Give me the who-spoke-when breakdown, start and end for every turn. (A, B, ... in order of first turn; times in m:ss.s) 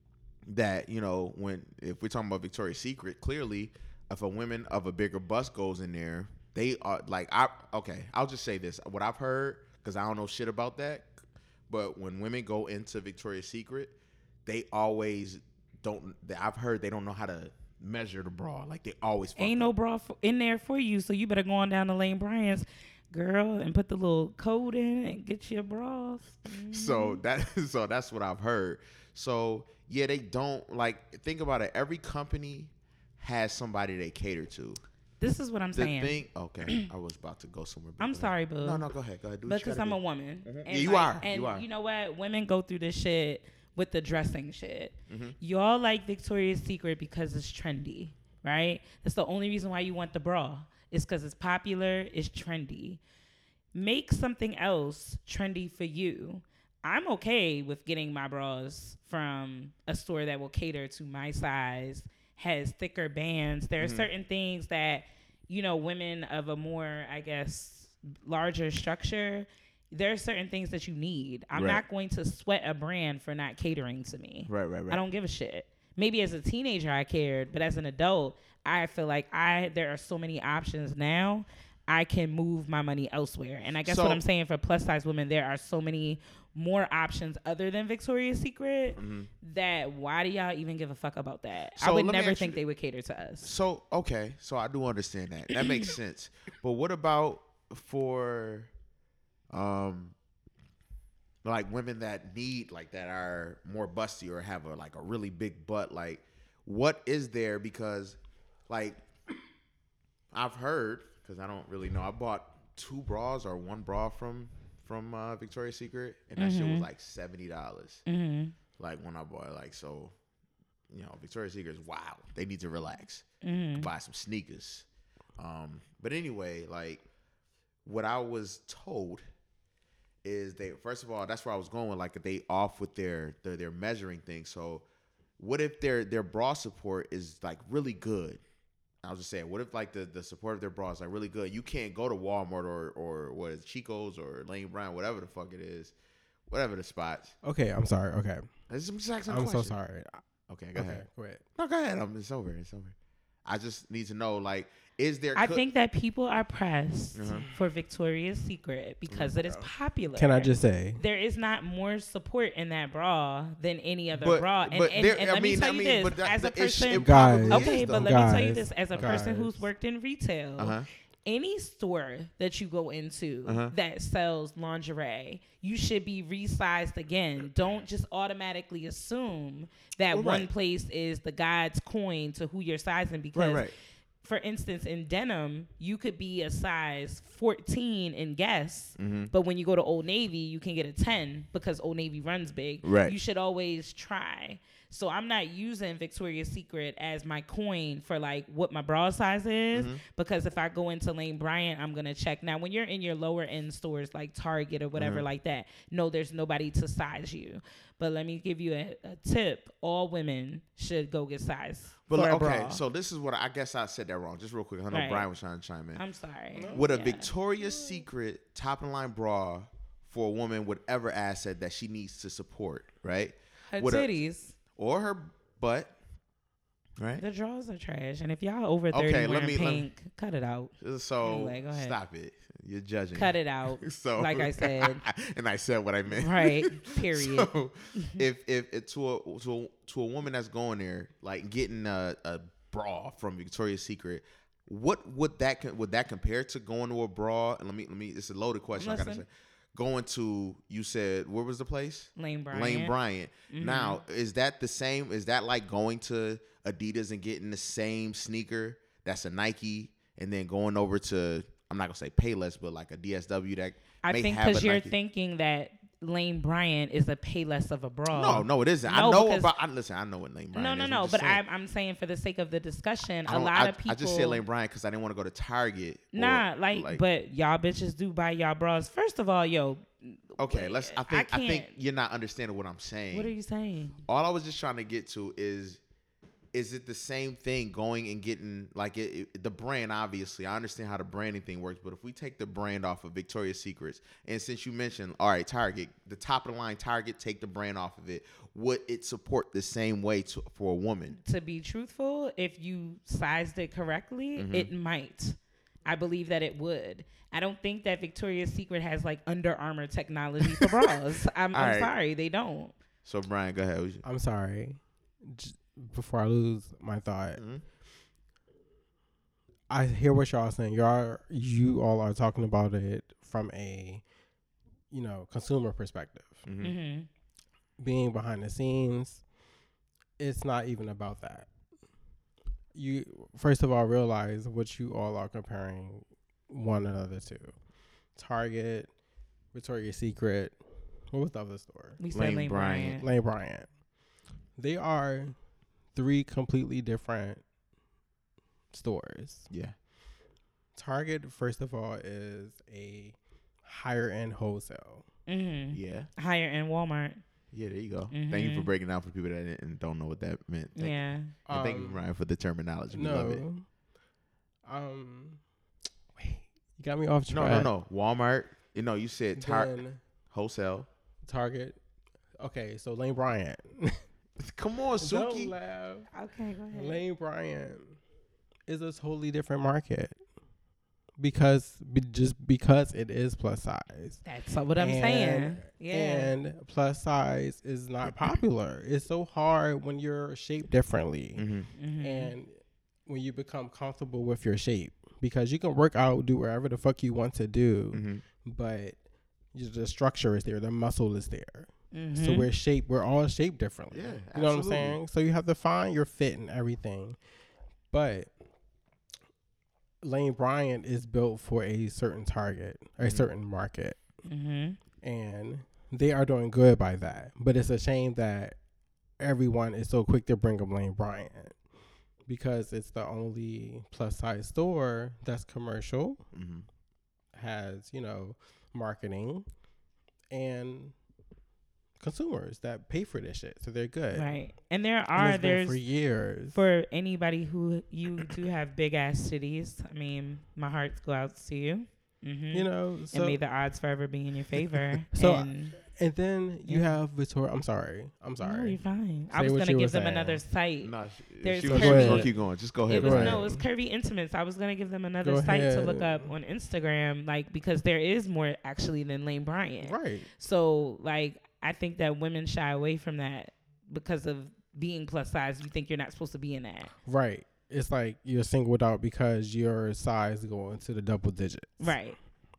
0:00.5-0:11.1 A
0:11.7-0:14.0 A
0:14.5-0:19.7 A
0:19.4-0:27.2 B
0:26.7-0:34.8 A
0:35.2-0:36.9 B
0:35.8-0:41.7 A
0:38.0-0:38.8 B
0:39.5-0:53.0 B
0:45.1-0:45.4 A
0:53.8-1:33.5 B
1:03.8-1:04.1 A
1:11.5-1:11.8 A
1:14.5-1:15.0 A
1:23.8-1:24.2 A
1:29.0-1:29.3 A
1:31.8-1:32.6 A
1:33.4-1:38.7 A
1:39.5-1:40.1 A
1:41.4-1:48.2 A
1:48.7-1:49.0 A
1:50.3-1:58.1 A
1:56.4-1:56.9 B
1:58.1-1:58.6 B
1:58.8-2:00.1 A
2:00.9-2:04.9 A
2:03.4-2:03.9 B
2:05.4-2:07.0 A
2:07.8-2:09.2 A
2:10.2-2:14.9 A
2:15.4-2:18.4 A
2:19.0-2:25.9 A
2:26.5-2:27.4 A
2:27.4-2:28.5 C
2:28.7-2:29.8 A
2:29.3-2:30.2 C
2:30.5-2:31.0 A
2:30.8-2:31.4 C
2:31.6-2:35.6 A
2:35.4-3:03.7 B
2:37.1-2:37.5 A
2:39.1-2:39.4 A
2:39.6-2:41.0 C
2:44.1-2:48.2 A
2:47.0-2:49.6 C
2:49.0-2:49.3 A
2:50.6-2:50.9 A
2:53.5-2:53.7 A
3:00.1-3:00.5 A
3:03.4-3:03.7 A
3:04.2-3:32.8 B
3:09.0-3:09.3 A
3:12.8-3:13.2 A
3:19.7-3:20.0 A
3:25.0-3:25.3 A
3:32.1-3:36.0 A
3:34.9-3:35.3 B
3:36.0-3:37.3 B
3:36.6-3:36.9 C
3:36.7-3:44.1 A
3:37.6-3:38.0 C
3:43.7-3:44.6 B
3:44.8-3:45.9 A
3:47.0-3:47.2 A
3:47.2-3:52.0 B
3:48.9-3:49.9 A
3:50.8-4:24.9 A
3:53.1-3:55.0 B
3:56.1-3:57.5 B
4:08.8-4:09.2 B
4:12.2-4:12.9 B
4:13.5-4:14.0 B
4:24.0-4:29.5 B
4:28.1-4:31.4 A
4:30.5-4:34.4 B
4:33.3-4:37.0 A
4:36.1-4:41.7 B
4:40.4-4:43.3 A
4:43.1-4:44.0 B
4:44.1-4:45.8 A
4:46.5-5:01.2 A
5:01.2-5:12.8 B
5:04.4-5:04.7 A
5:10.4-5:10.8 A
5:11.5-5:11.9 A
5:13.0-5:14.0 A
5:14.0-5:17.4 C
5:17.4-5:17.6 A
5:19.7-5:24.0 C
5:24.9-5:26.4 C
5:26.4-5:26.8 A
5:26.6-5:27.1 B
5:27.8-5:29.2 C
5:30.2-5:31.5 C
5:32.8-5:37.6 C
5:38.2-5:38.9 C
5:39.5-5:40.6 C
5:41.1-5:42.0 C
5:42.0-5:43.0 B
5:42.1-5:43.0 A
5:43.0-5:43.7 C
5:44.6-5:45.4 C
5:46.0-5:47.4 C
5:48.7-5:49.5 C
5:49.5-5:49.8 A
5:50.8-5:55.1 C
5:55.3-5:57.2 B
5:55.7-5:56.1 A
5:57.5-6:01.0 A
5:58.1-5:58.7 B
6:00.8-6:01.3 B
6:01.5-6:03.4 A
6:01.5-6:02.0 C
6:02.9-6:03.7 C
6:04.6-6:05.4 C
6:06.2-6:07.7 C
6:07.3-6:09.7 A
6:09.4-6:10.0 C
6:10.3-6:10.9 A
6:11.2-6:11.8 C
6:12.4-6:14.0 C
6:14.4-6:15.5 A
6:15.0-6:16.1 C
6:16.1-6:17.0 B
6:16.7-6:18.0 C
6:18.7-6:20.2 C
6:21.2-6:24.2 C
6:24.2-6:26.3 B
6:24.8-6:31.4 C
6:28.0-6:28.4 A
6:31.4-6:31.7 A
6:31.8-6:32.3 B
6:32.0-6:39.0 C
6:37.9-6:38.2 A
6:39.5-6:47.2 C
6:41.9-6:42.5 B
6:43.9-6:45.0 A
6:47.9-6:48.3 C
6:50.0-6:54.0 C
6:53.0-6:53.3 A
6:54.3-6:54.8 B
6:55.0-6:58.6 C
6:59.2-7:01.6 C
7:02.3-7:06.2 C
7:06.3-7:06.7 A
7:07.3-7:09.5 C
7:10.3-7:11.0 C
7:12.0-7:14.3 C
7:14.1-7:15.8 B
7:15.1-7:16.6 C
7:16.5-7:25.8 B
7:22.5-7:23.4 C
7:25.1-7:28.8 C
7:26.7-7:27.0 B
7:28.4-7:32.3 B
7:29.3-7:30.4 C
7:30.8-7:33.4 A
7:31.7-7:32.3 C
7:32.9-7:46.9 B
7:32.9-7:33.6 C
7:35.2-7:36.3 C
7:39.8-7:40.3 C
7:47.1-7:52.0 C
7:51.8-7:52.2 B